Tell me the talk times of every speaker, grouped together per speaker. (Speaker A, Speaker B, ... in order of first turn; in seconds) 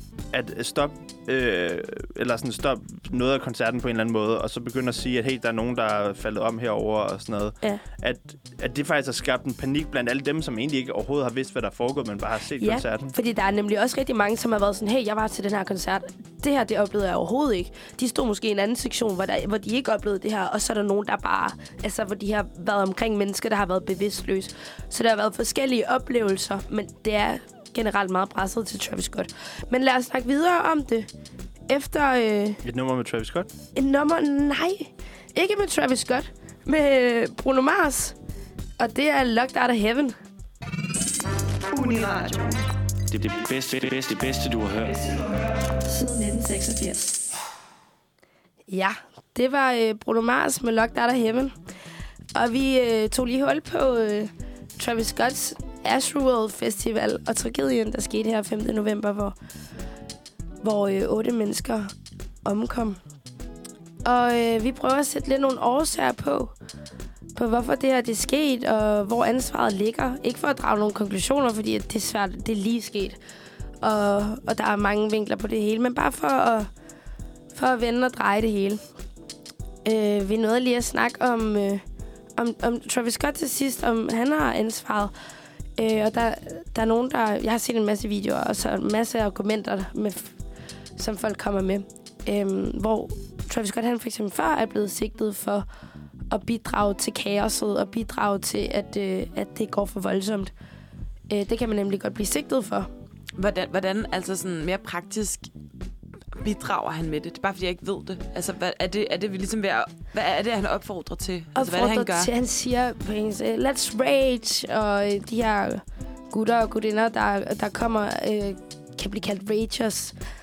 Speaker A: 0.3-13.1, 32.6-33.5
Speaker B: 12.6-31.1, 31.7-32.6, 33.8-38.2, 38.8-40.1, 45.7-47.3, 48.7-51.5, 52.3-59.4, 60.6-61.9, 62.4-63.0, 64.0-66.5, 67.4-73.2, 73.8-76.7, 77.5-78.8, 79.8-81.8, 82.4-85.1, 85.8-90.3, 91.0-95.7, 96.3-100.5, 101.3-102.9, 111.5-120.2
Speaker C: 42.1-42.5, 103.4-105.5, 106.3-112.3
Speaker D: 43.1-45.4